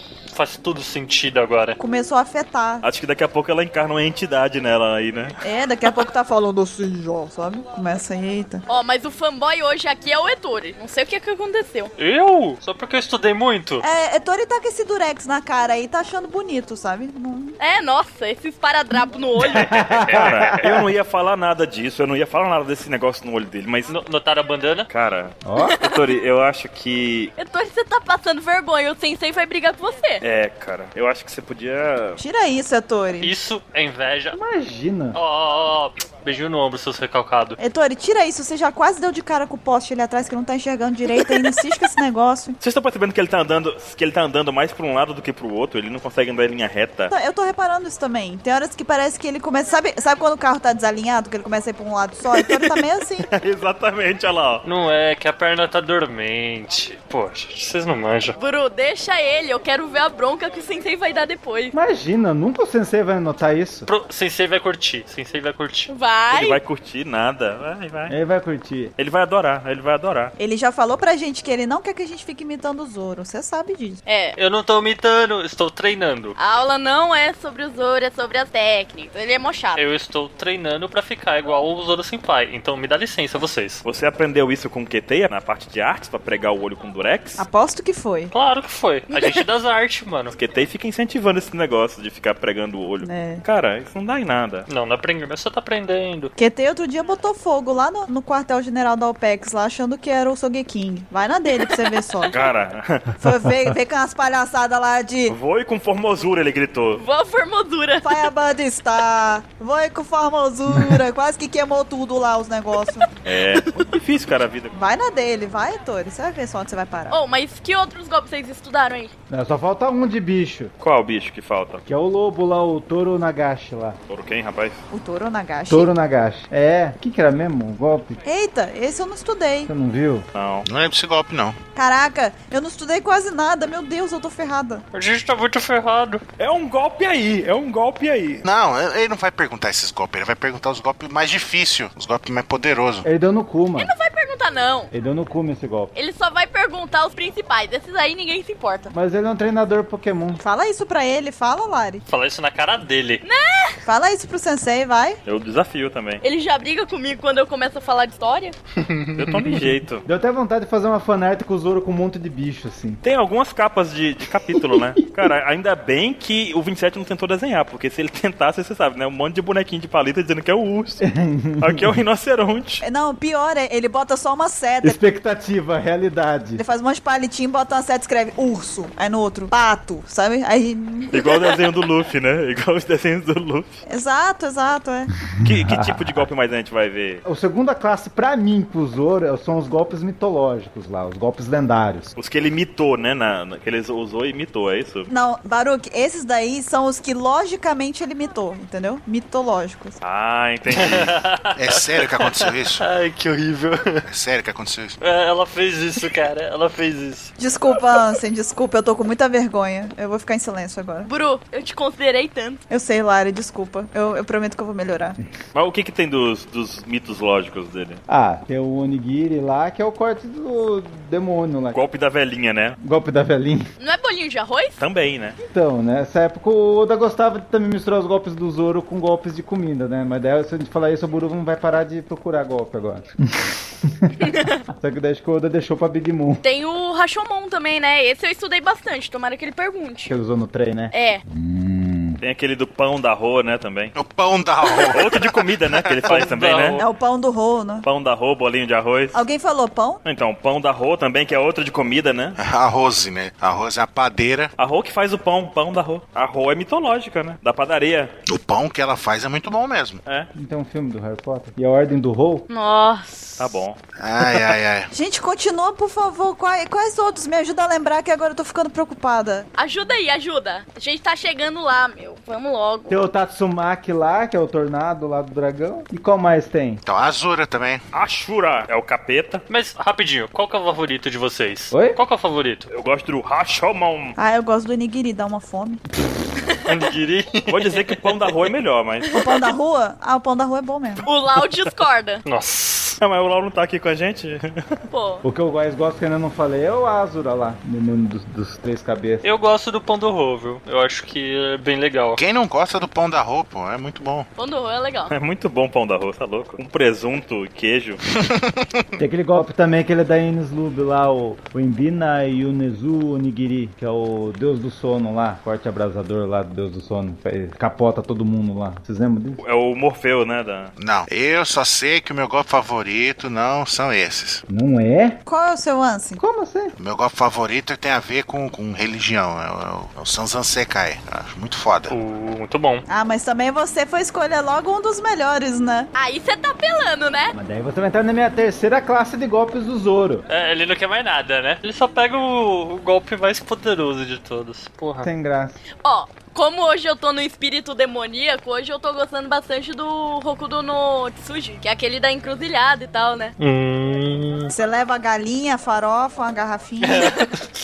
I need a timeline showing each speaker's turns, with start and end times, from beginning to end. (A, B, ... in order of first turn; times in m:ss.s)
0:00.3-0:01.8 A
0:01.8-0:02.8 B
0:02.8-0:05.4 C
0:05.4-0:08.6 B
0:08.7-0:11.9 D
0:12.0-0:13.8 A
0:13.8-0:17.6 B
0:17.6-0:20.0 D
0:19.4-0:20.8 E
0:20.0-0:20.5 A
0:20.1-0:23.9 C
0:23.9-0:24.9 A
0:24.9-0:27.3 C
0:25.4-0:25.8 E
0:25.6-0:26.0 D
0:27.4-0:30.2 D
0:30.2-0:32.2 C
0:32.2-0:33.3 B
0:33.2-0:34.4 A
0:34.3-0:35.2 E
0:35.1-0:37.6 A
0:37.6-0:42.6 B
0:42.6-0:47.1 C
0:47.1-0:53.3 B
0:53.3-0:54.6 C
0:54.6-0:58.4 A
0:58.4-1:01.7 D
1:01.7-1:03.9 E
1:03.9-1:05.9 A
1:05.9-1:06.6 D
1:06.3-1:08.1 C
1:08.1-1:08.9 E
1:09.0-1:10.3 C
1:10.4-1:14.0 B
1:14.0-1:14.4 D
1:14.4-1:16.4 A
1:16.4-1:19.8 D
1:19.7-1:23.8 A
1:23.8-1:27.4 C
1:27.4-1:28.3 B
1:28.3-1:30.3 A
1:29.1-1:29.4 D
1:30.3-1:34.7 C
1:33.0-1:33.4 B
1:34.7-1:36.3 A
1:36.4-1:42.3 B
1:42.3-1:43.2 C
1:43.2-1:45.4 B
1:45.3-1:47.0 C
1:47.0-1:48.3 D
1:48.0-1:53.1 B
1:53.2-1:54.7 C
1:54.7-1:57.2 B
1:57.1-1:59.1 D
1:59.3-2:00.7 E
2:00.8-2:01.8 C
2:01.9-2:04.0 E
2:04.1-2:04.8 C
2:04.9-2:05.9 B
2:05.7-2:08.2 E
2:08.2-2:09.7 B
2:09.7-2:10.3 E
2:10.3-2:10.6 C
2:10.6-2:11.6 F
2:11.8-2:14.8 B
2:14.9-2:16.2 A
2:16.4-2:18.4 C
2:18.4-2:23.0 F
2:23.0-2:23.9 E
2:23.8-2:24.9 D
2:24.9-2:25.9 E
2:25.9-2:28.9 D
2:28.9-2:30.4 E
2:30.4-2:32.0 B
2:32.1-2:33.2 A
2:33.2-2:33.8 D
2:33.8-2:35.2 B
2:35.2-2:36.2 C
2:36.2-2:38.6 D
2:38.8-2:39.6 A
2:39.1-2:40.0 C
2:40.0-2:43.0 E
2:43.0-2:51.0 C
2:51.0-2:51.9 E
2:51.6-2:52.8 C
2:52.8-2:55.0 B
2:54.8-2:56.6 E
2:56.6-3:01.2 B
3:01.1-3:03.8 C
3:03.8-3:05.1 B
3:05.4-3:06.2 E
3:05.4-3:07.2 C
3:07.2-3:12.1 E
3:12.2-3:15.1 C
3:15.1-3:20.0 B
3:20.0-3:21.1 C
3:20.7-3:24.0 A
3:21.6-3:22.8 F
3:24.0-3:25.0 F
3:25.0-3:27.3 A
3:27.4-3:31.1 B
3:31.0-3:32.6 D
3:32.7-3:35.2 B
3:35.5-3:38.0 C
3:38.1-3:41.8 E
3:41.7-3:42.8 C
3:42.8-3:43.7 E
3:43.8-3:44.8 D
3:44.8-3:45.4 C
3:45.4-3:56.4 E
3:54.2-3:54.6 D
3:56.4-4:00.1 D
4:00.1-4:02.2 E
4:00.9-4:01.2 D
4:02.2-4:03.9 C
4:03.9-4:05.9 F
4:04.9-4:06.8 C
4:06.0-4:06.9 A
4:06.8-4:07.8 B
4:07.8-4:09.2 C
4:09.1-4:10.0 B
4:10.0-4:12.4 C
4:12.4-4:14.5 F
4:14.6-4:18.1 C
4:18.3-4:20.0 F
4:20.3-4:22.4 E
4:22.5-4:23.4 D
4:23.4-4:24.5 C
4:24.0-4:24.9 F
4:24.9-4:29.5 B
4:29.6-4:33.0 D
4:32.9-4:36.8 E
4:36.8-4:37.8 F
4:37.9-4:39.4 C
4:39.5-4:42.7 A
4:41.7-4:42.0 E
4:42.7-4:44.2 C
4:44.2-4:45.8 B
4:46.6-4:48.3 A
4:47.5-4:49.1 C
4:49.0-4:49.4 D
4:49.1-4:51.0 B
4:51.0-4:52.2 D
4:52.2-4:53.0 A
4:53.0-4:54.7 C
4:54.9-4:55.2 D
4:55.2-4:59.2 E
4:59.2-5:02.2 A
5:02.2-5:04.3 F
5:04.4-5:05.1 D
5:05.1-5:08.0 C
5:08.2-5:08.8 F
5:09.0-5:19.4 E
5:19.4-5:20.7 C
5:20.8-5:24.4 F
5:24.5-5:25.2 E
5:25.2-5:26.2 B
5:26.2-5:26.7 E
5:26.8-5:31.9 F
5:31.9-5:32.8 A
5:32.9-5:35.9 B
5:35.9-5:37.3 D
5:37.3-5:40.2 E
5:40.3-5:45.1 A
5:45.0-5:45.6 E
5:45.8-5:53.3 D
5:53.4-5:54.5 A
5:54.5-5:57.2 B
5:56.8-5:57.5 A